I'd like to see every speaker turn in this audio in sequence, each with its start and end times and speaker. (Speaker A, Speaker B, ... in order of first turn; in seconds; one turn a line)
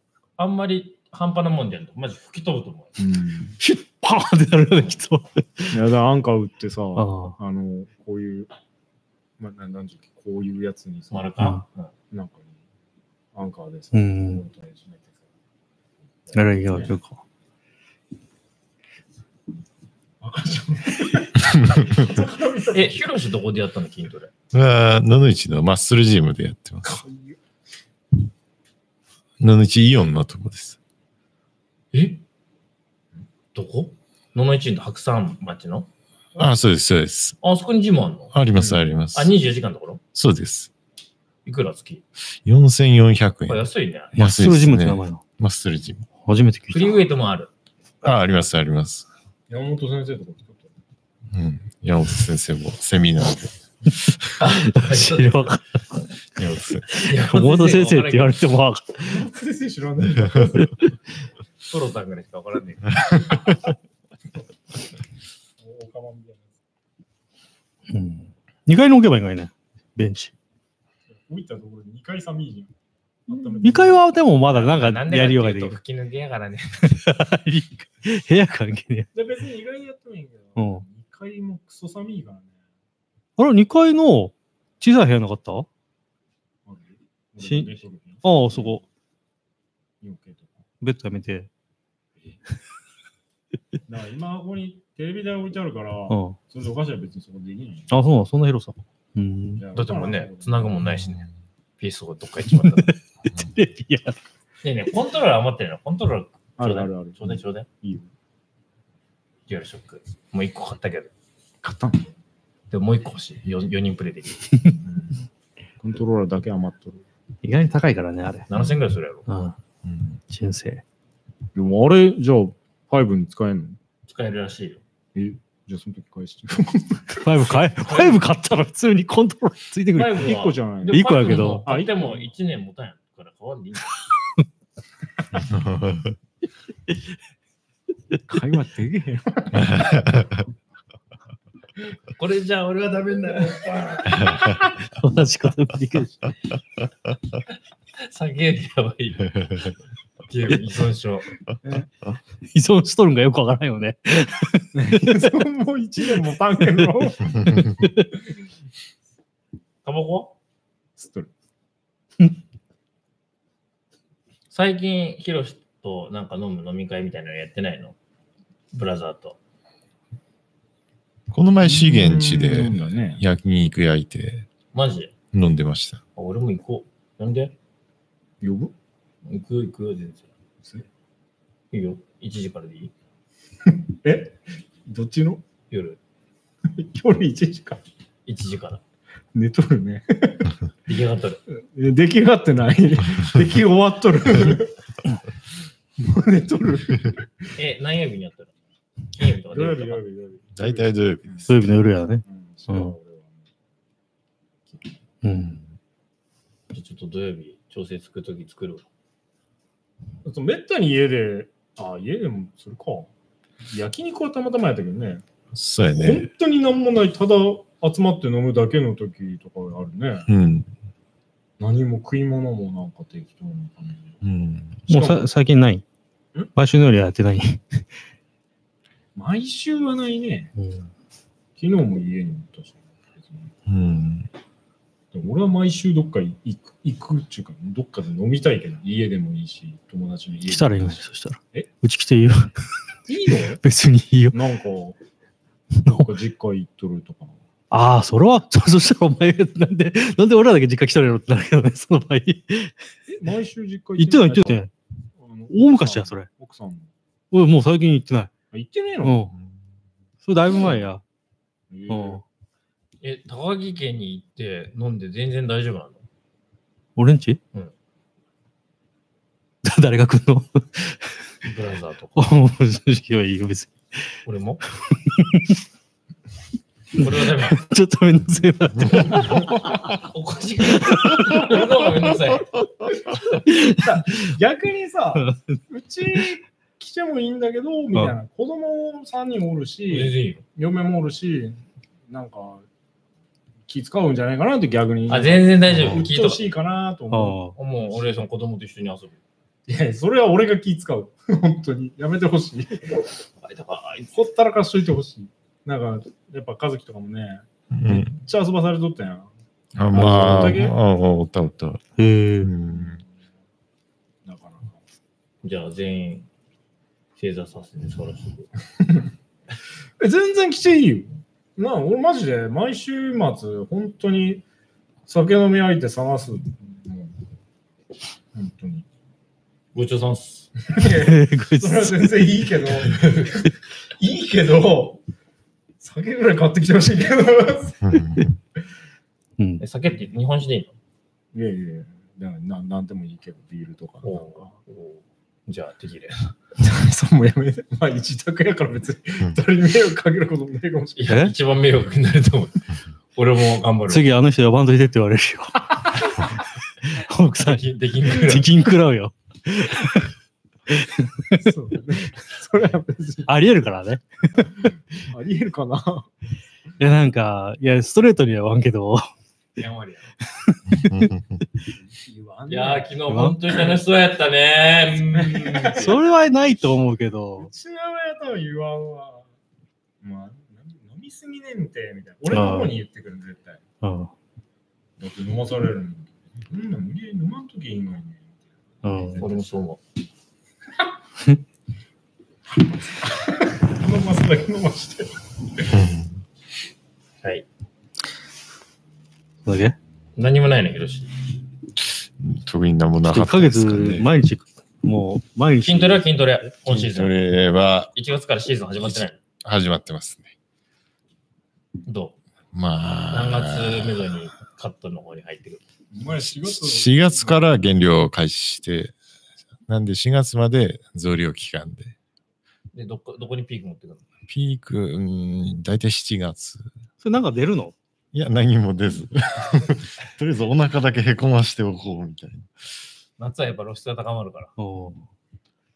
Speaker A: 0.4-2.9
Speaker B: 3.0-3.6
Speaker C: 3.6-5.8
Speaker B: 5.7-8.5
Speaker C: 7.0-7.3
Speaker B: 9.4-11.3
Speaker A: 11.1-11.9
Speaker B: 12.1-12.5
Speaker B: 13.3-15.2
Speaker C: 13.9-14.4
Speaker B: 16.2-17.0
Speaker C: 16.3-17.2
Speaker B: 20.2-23.1
Speaker A: 22.7-24.3
Speaker D: 24.5-26.9
Speaker B: 26.8-27.4
Speaker D: 29.4-30.8
Speaker A: 31.9-32.2
Speaker A: 33.5-35.9
Speaker D: 36.4-37.4
Speaker A: 37.4-38.3
Speaker D: 38.3-39.3
Speaker B: 38.5-38.8
Speaker A: 39.1-40.0
Speaker D: 40.1-40.7
Speaker A: 41.4-42.0
Speaker D: 42.4-46.0
Speaker A: 43.5-44.1
Speaker C: 44.1-45.2
Speaker C: 46.2-47.0
Speaker A: 46.7-47.5
Speaker D: 48.0-49.1
Speaker B: 49.5-50.7
Speaker D: 51.3-53.5
Speaker A: 54.4-55.5
Speaker C: 54.4-55.6
Speaker D: 56.4-56.9
Speaker C: 56.9-59.2
Speaker A: 56.9-58.4
Speaker B: 59.0-60.8
Speaker A: 61.6-63.2
Speaker B: 65.6-66.5
Speaker C: 67.9-70.3
Speaker B: 71.2-72.7
Speaker B: 73.3-74.1
Speaker C: 73.5-75.8
Speaker A: 74.5-77.0
Speaker C: 76.9-79.1
Speaker B: 79.1-82.5
Speaker C: 80.6-80.8
Speaker C: 83.4-85.7
Speaker B: 86.7-88.8
Speaker C: 87.4-87.7
Speaker C: 88.2-88.8
Speaker B: 90.0-90.6
Speaker C: 90.8-91.5
Speaker B: 93.8-97.9
Speaker C: 96.1-96.4
Speaker C: 97.9-99.6
Speaker B: 99.6-100.7
Speaker A: 99.7-101.2
Speaker D: 101.0-101.3
Speaker A: 101.8-102.9
Speaker C: 102.6-104.2
Speaker A: 104.6-107.7
Speaker B: 106.6-108.1
Speaker A: 109.5-111.1
Speaker B: 111.6-112.1
Speaker A: 112.7-114.6
Speaker B: 114.8-115.1
Speaker B: 115.8-117.0
Speaker C: 117.4-118.5
Speaker A: 118.5-119.2
Speaker C: 119.3-119.5
Speaker D: 119.8-120.2
Speaker C: 120.3-120.8
Speaker B: 121.5-123.8
Speaker A: 124.0-124.8
Speaker B: 125.1-127.2
Speaker C: 127.2-131.7
Speaker A: 127.8-128.2
Speaker A: 129.9-134.0
Speaker B: 130.1-132.3
Speaker D: 135.5-136.1
Speaker B: 138.3-139.9
Speaker D: 139.5-140.4
Speaker A: 142.1-144.4
Speaker C: 144.8-146.3
Speaker A: 148.0-149.3
Speaker D: 149.3-149.7
Speaker A: 150.3-151.3
Speaker B: 151.6-151.9
Speaker C: 152.5-155.3
Speaker B: 154.7-157.5
Speaker C: 156.6-158.1
Speaker A: 159.8-160.3
Speaker B: 161.0-161.3
Speaker A: 164.5-167.9
Speaker A: 168.7-169.4
Speaker D: 171.3-174.5
Speaker B: 171.6-173.2
Speaker A: 174.7-175.1
Speaker D: 175.3-176.0
Speaker A: 176.2-177.5
Speaker B: 178.4-178.7
Speaker A: 179.2-180.3
Speaker A: 181.7-182.9
Speaker B: 183.7-185.4
Speaker A: 185.7-186.0
Speaker B: 186.7-187.8
Speaker A: 188.2-188.8
Speaker B: 189.3-190.5
Speaker A: 190.9-191.4
Speaker B: 191.6-194.7
Speaker B: 196.0-197.5
Speaker A: 197.6-198.5
Speaker A: 199.1-200.0
Speaker B: 199.2-201.5
Speaker D: 200.6-201.6
Speaker C: 201.5-202.9
Speaker B: 202.2-203.4
Speaker B: 204.7-204.9
Speaker C: 205.2-205.6
Speaker A: 206.7-208.8
Speaker B: 210.2-213.1
Speaker B: 213.7-215.2
Speaker D: 215.5-216.3
Speaker B: 215.9-220.3
Speaker D: 220.3-220.7
Speaker B: 221.6-224.2
Speaker D: 224.2-224.8
Speaker B: 224.9-225.2
Speaker C: 224.9-225.8
Speaker C: 226.5-227.8
Speaker B: 229.1-230.5
Speaker C: 230.6-230.9
Speaker B: 231.6-233.5
Speaker D: 233.7-234.3
Speaker B: 235.1-241.0
Speaker C: 240.4-242.5
Speaker B: 243.1-243.6
Speaker C: 243.6-244.4
Speaker B: 244.3-245.0
Speaker C: 245.8-246.2
Speaker B: 245.9-247.4
Speaker C: 247.7-252.7
Speaker B: 253.1-254.6
Speaker C: 254.0-254.7
Speaker B: 255.2-256.9
Speaker C: 255.5-256.3
Speaker C: 257.3-258.3
Speaker B: 258.5-259.3
Speaker C: 259.0-259.3
Speaker C: 260.2-261.0
Speaker B: 260.5-260.8
Speaker B: 261.7-262.2
Speaker C: 261.9-262.2
Speaker A: 263.0-266.0
Speaker C: 266.9-267.4
Speaker C: 269.6-271.1
Speaker A: 271.4-272.2
Speaker C: 272.1-273.8
Speaker A: 274.2-274.6
Speaker C: 274.9-275.6
Speaker A: 277.0-277.6
Speaker C: 277.0-279.8
Speaker A: 279.4-282.5
Speaker C: 280.7-281.6
Speaker C: 283.4-284.3
Speaker B: 283.4-292.6
Speaker C: 285.1-285.6
Speaker A: 289.9-290.4
Speaker B: 293.7-297.4
Speaker A: 295.1-296.4
Speaker D: 295.7-296.1
Speaker C: 297.1-297.6
Speaker A: 297.6-299.2
Speaker B: 299.7-303.1
Speaker A: 303.4-304.1
Speaker B: 304.1-309.3
Speaker D: 307.7-308.1
Speaker D: 309.7-311.8
Speaker B: 309.9-310.8
Speaker C: 312.0-312.5
Speaker D: 312.4-313.0
Speaker B: 312.6-313.1
Speaker B: 314.2-314.8
Speaker A: 315.4-316.3
Speaker A: 317.1-318.5
Speaker B: 318.8-319.1
Speaker B: 320.0-324.4
Speaker B: 325.1-327.1
Speaker B: 328.3-328.9
Speaker A: 329.7-330.5
Speaker B: 330.7-335.0
Speaker C: 330.9-332.2
Speaker B: 335.8-338.1
Speaker D: 337.8-338.3
Speaker C: 339.4-339.6
Speaker A: 339.6-340.7
Speaker B: 341.3-344.5
Speaker A: 344.0-346.3
Speaker B: 346.6-351.2
Speaker A: 350.9-354.0
Speaker C: 351.1-351.3
Speaker C: 353.9-360.1
Speaker A: 357.4-358.5
Speaker C: 360.7-361.5
Speaker B: 361.4-363.3
Speaker C: 363.3-364.5
Speaker B: 365.0-366.1
Speaker C: 366.8-369.0
Speaker A: 369.6-370.1
Speaker C: 370.4-371.1
Speaker D: 370.7-371.4
Speaker B: 371.7-373.6
Speaker A: 372.5-376.0
Speaker C: 373.1-373.4
Speaker B: 375.1-376.1
Speaker C: 375.7-377.5
Speaker B: 377.4-379.3
Speaker B: 380.0-383.6
Speaker C: 382.3-382.8
Speaker C: 383.8-384.1
Speaker B: 385.0-389.4
Speaker C: 388.8-389.2
Speaker A: 389.2-389.8
Speaker B: 392.5-395.8
Speaker D: 395.7-396.2
Speaker C: 399.4-399.8
Speaker A: 400.1-401.1
Speaker D: 402.2-404.1
Speaker C: 403.1-406.1
Speaker A: 405.6-407.1
Speaker D: 406.6-407.9
Speaker A: 407.9-409.2
Speaker D: 408.8-410.3
Speaker A: 411.9-412.2
Speaker D: 412.5-414.0
Speaker A: 413.1-415.6
Speaker B: 415.9-417.4
Speaker D: 416.2-418.9
Speaker D: 419.7-421.9
Speaker A: 422.7-424.0
Speaker D: 424.3-426.7
Speaker C: 427.0-427.7
Speaker D: 428.1-432.5
Speaker A: 433.2-434.5
Speaker C: 434.6-435.0